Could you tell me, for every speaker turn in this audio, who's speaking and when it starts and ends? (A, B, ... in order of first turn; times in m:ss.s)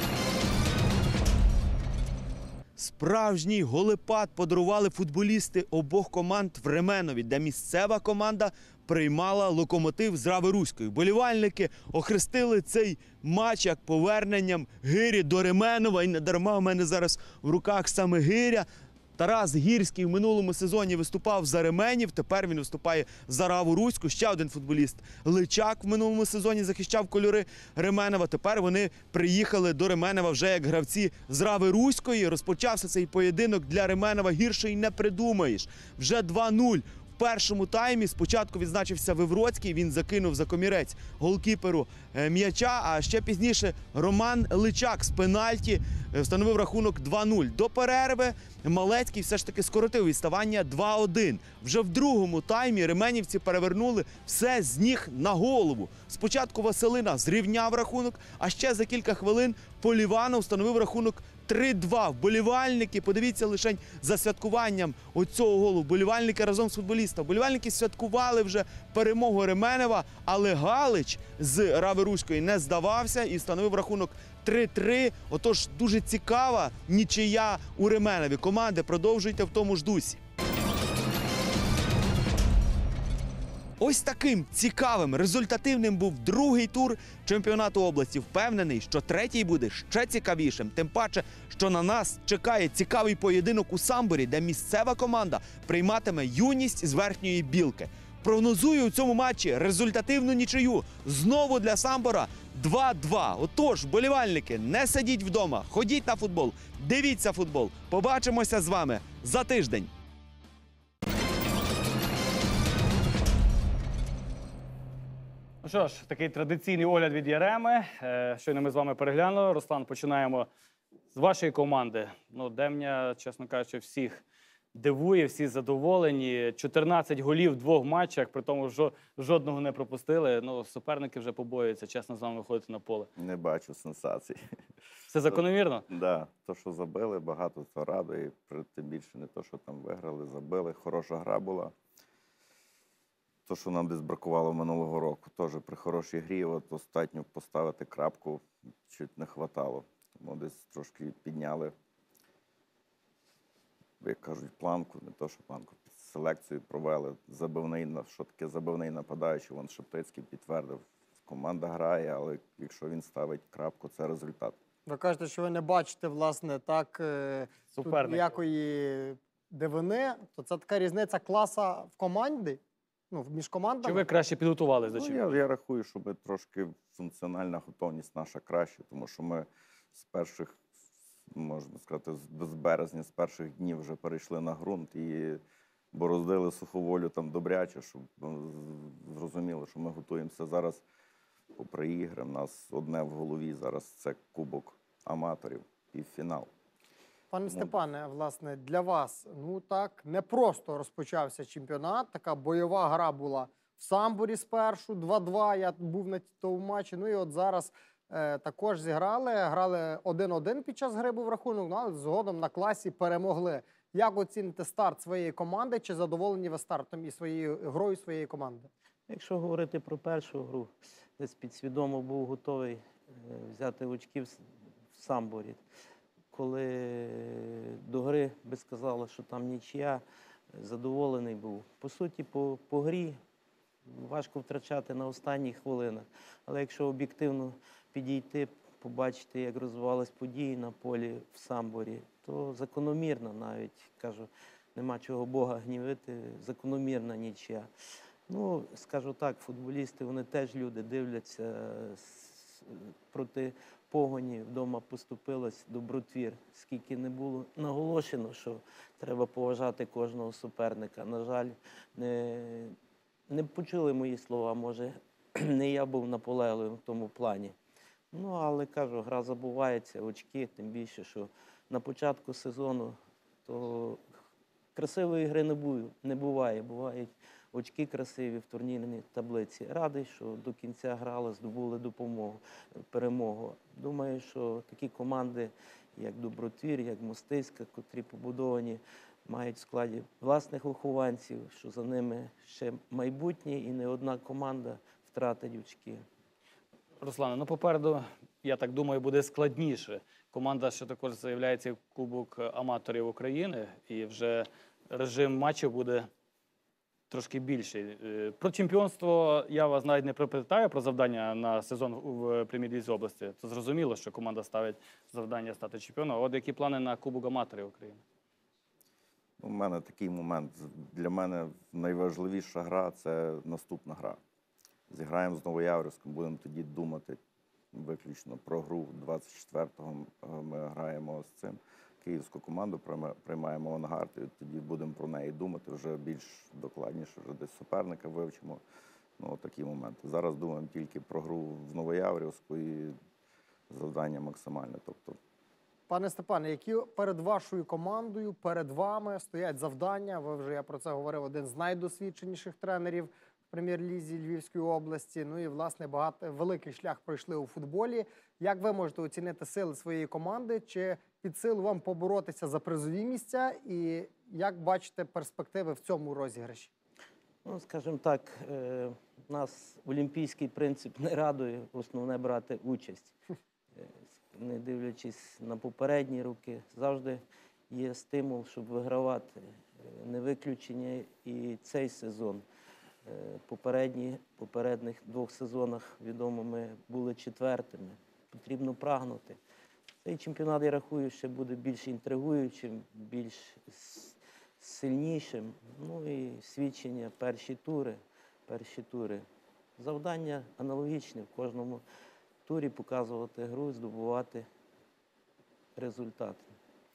0:02.8-1:20.2 A
1:23.8-1:49.9 A
1:55.6-2:00.5 B
2:01.1-2:04.2 B
2:04.7-2:13.1 B
2:13.2-2:14.4 C
2:15.1-2:15.8 B
2:15.3-2:21.7 C
2:23.4-2:31.7 C
2:34.0-2:44.6 C
2:44.8-2:52.6 D
2:47.7-2:48.3 B
2:53.1-2:54.0 D
2:53.8-2:55.4 B
2:54.9-3:00.6 C
3:01.3-3:05.4 C
3:05.9-3:10.8 C
3:11.5-3:16.5 C
3:17.3-3:38.7 D
3:17.5-3:17.8 C
3:39.1-3:44.4 E
3:44.9-3:45.6 E
3:46.3-3:50.0 E
3:50.5-3:53.2 E
3:53.9-4:07.7 E
4:08.3-4:22.7 E
4:23.3-4:27.5 E
4:28.1-4:34.0 E
4:34.7-4:56.0 E
4:57.0-5:06.1 B
5:07.1-5:18.0 B
5:19.4-5:24.2 C
5:24.9-5:27.2 C
5:27.7-5:38.6 C
5:39.2-5:42.9 C
5:43.7-5:45.2 C
5:45.9-6:06.7 D
6:07.4-6:13.1 E
6:14.3-6:22.4 E
6:23.0-6:29.4 E
6:30.0-6:39.2 E
6:39.8-6:41.8 E
6:42.4-6:44.5 E
6:45.8-6:46.5 E